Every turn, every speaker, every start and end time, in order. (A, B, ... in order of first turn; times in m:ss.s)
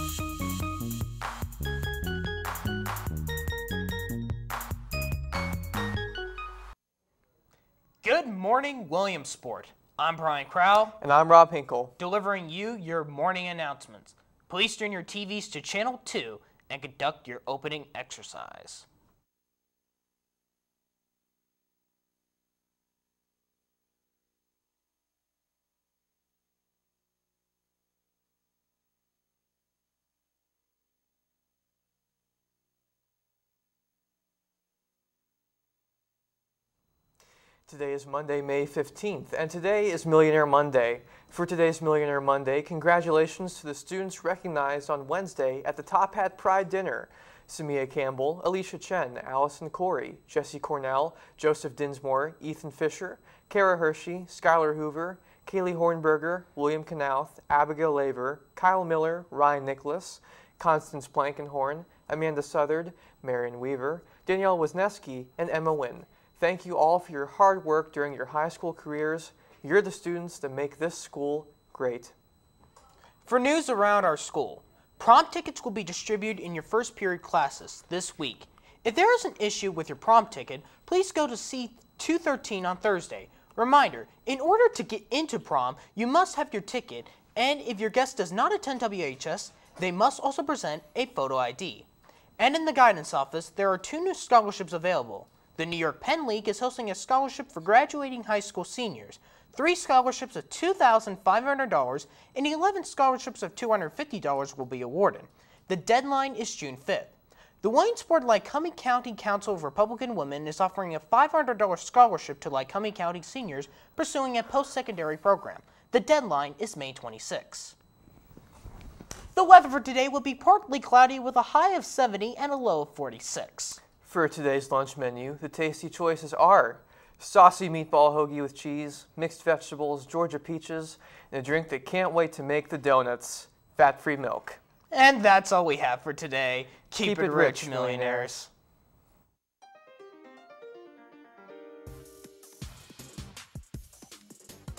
0:08.0-0:11.0 A
0:11.0-0:11.9 B
0:12.0-0:18.9 A
0:37.7-1:12.1 B
1:13.2-1:31.9 A
1:32.4-1:57.8 A
1:59.3-2:03.8 A
2:04.0-2:14.6 B
2:14.9-2:18.5 A
2:17.0-2:18.3 B